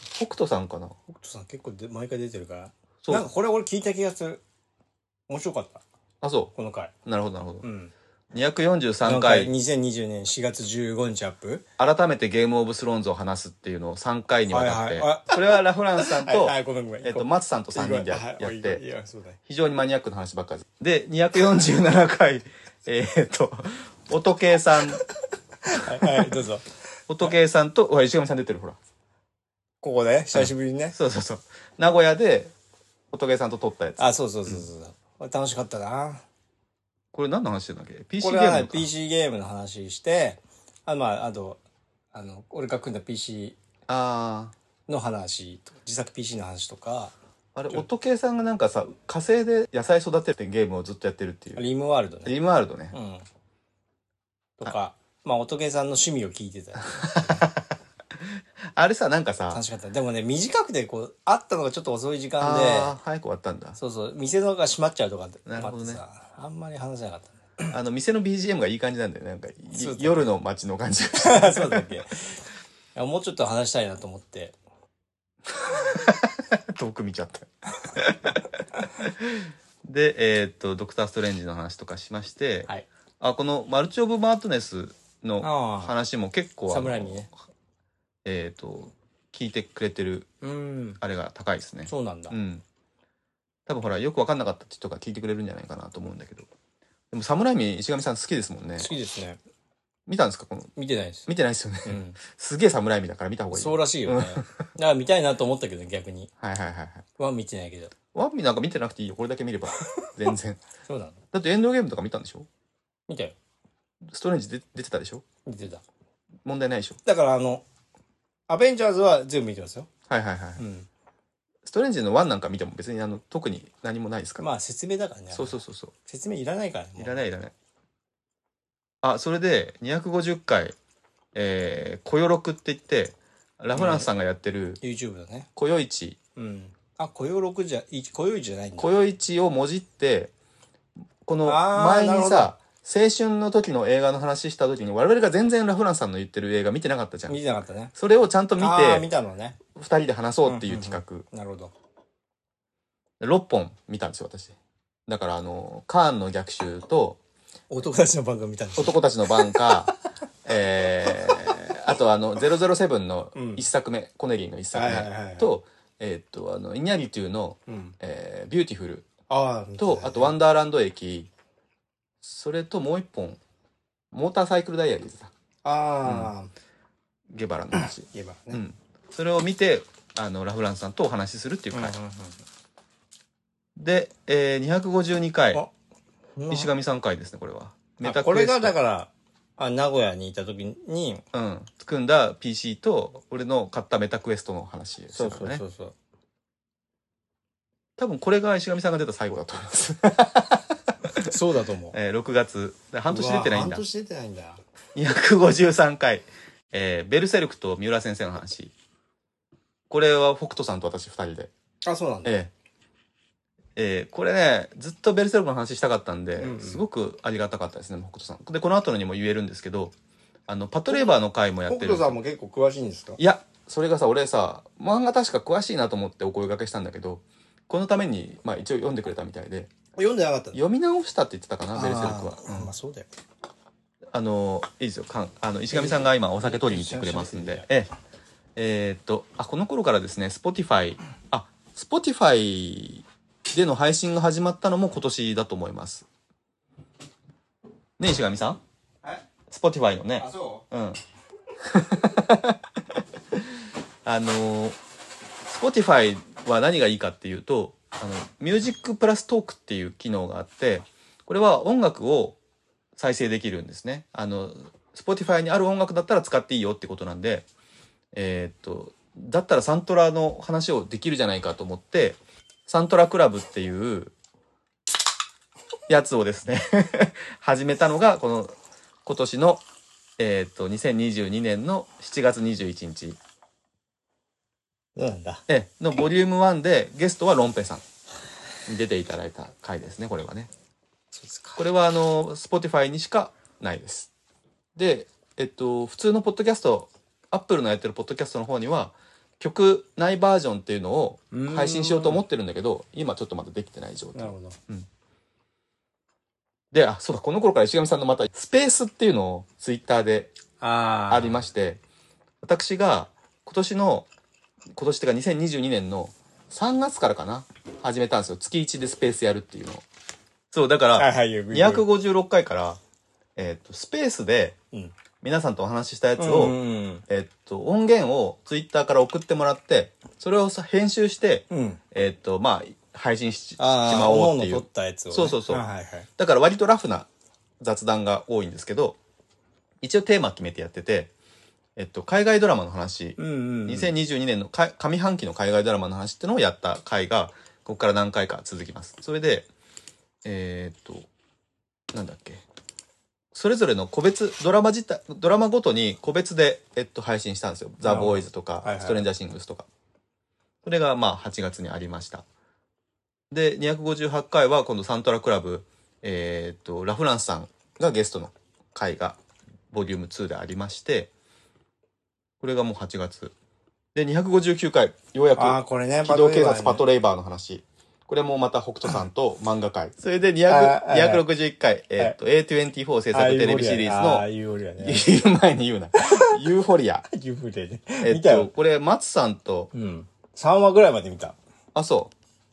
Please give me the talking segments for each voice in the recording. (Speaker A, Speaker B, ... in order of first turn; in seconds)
Speaker A: 0.1-1.0, 6.2-6.5, 7.0-7.7, 8.3-9.5, 11.8-18.8, 19.5-25.0, 26.0-26.4, 27.1-28.8, 30.3-32.5, 33.1-34.7, 37.1-38.9, 43.9-44.5, 47.5-51.6, 52.2-52.9, 57.0-57.6, 58.7-59.6, 62.4-63.8, 65.5-66.0, 67.7-71.9, 75.6-82.7, 83.2-87.3, 88.2-90.3, 91.0-92.6, 93.7-96.5, 97.1-98.9, 100.1-100.7, 101.3-104.5, 106.4-107.0, 108.1-110.6, 111.3-112.5, 114.1-115.2, 116.5-117.0, 120.1-120.6, 121.7-124.5, 125.3-125.9, 127.0-127.5, 129.0-130.8, 131.3-134.8, 135.6-136.2, 138.8-140.3, 141.3-147.4, 147.9-149.1, 149.7-151.2, 153.2-154.6, 155.1-157.2, 158.8-159.9, 160.4-169.1, 169.8-171.3, 172.2-173.4, 174.1-175.3, 176.1-176.3, 177.3-181.9, 183.8-185.6, 186.5-188.8, 191.3-195.6, 198.0-201.3, 201.9-203.8, 204.9-208.7, 209.9-211.5, 212.2-212.5, 213.8-219.9, 220.5-222.2, 223.2-229.7, 230.5-232.7, 234.1-237.9, 238.6-246.1, 248.0-248.6, 249.5-251.0, 251.6-252.6, 254.1-254.8, 255.4-262.4, 263.0-267.5, 268.1-274.1, 275.9-279.6, 280.2-283.2, 285.5-287.8, 288.7-290.5, 291.6-294.1, 294.8-304.9, 306.7-310.3, 311.1-311.8, 312.4-314.1, 314.7-319.8, 320.5-322.8, 323.4-324.6, 325.2-326.6, 327.1-335.6, 336.2-337.1, 337.6-339.0, 339.8-341.1, 341.8-349.5, 350.2-351.1, 351.9-352.4, 353.3-359.7, 360.6-362.2, 363.3-369.2, 369.7-371.1, 372.4-373.3, 373.9-384.3, 384.8-387.1, 388.0-389.7, 391.8-392.1
Speaker B: 1.1-4.4, 5.3-5.8, 6.5-6.9, 7.6-7.9, 9.1-11.7, 14.5-19.4, 25.6-26.7, 29.8-31.0, 34.0-36.2, 38.2-41.6, 42.1-43.6, 44.9-47.1, 51.6-52.4, 52.9-53.2, 54.6-57.5, 59.5-62.9, 63.8-67.8, 69.7-70.3, 71.2-72.4, 73.0-74.6, 85.4-85.9, 86.7-87.3, 90.4-91.0, 91.9-92.4, 98.8-99.4, 100.8-101.3, 101.8-102.2, 103.5-106.3, 107.2-107.9, 110.9-111.2, 113.1-113.3, 115.5-115.8, 117.0-117.6, 118.5-119.9, 120.6-120.9, 124.4-127.3, 133.7-134.1, 134.8-135.5, 136.4-138.9, 141.4-142.5, 147.3-147.9, 148.6-149.6, 150.4-151.7, 157.7-159.9, 163.3-163.7, 164.7-165.5, 167.7-167.9, 169.3-170.4, 175.7-176.5, 177.7-178.6, 181.7-182.4, 186.4-186.7, 188.0-191.2, 195.1-195.9, 201.1-202.0, 203.1-204.6, 211.8-212.4, 216.4-216.8, 221.7-223.2, 230.0-230.6, 231.7-233.1, 235.7-237.7, 250.2-250.6, 285.0-285.4, 291.1-291.6, 301.3-302.2, 304.1-304.6, 310.6-311.5, 321.0-321.9, 326.2-327.1, 331.5-331.8, 333.6-336.1, 343.2-343.9, 357.8-359.1, 375.4-376.8, 380.5-381.2, 383.1-385.1, 386.0-386.3, 387.1-388.5, 389.7-391.4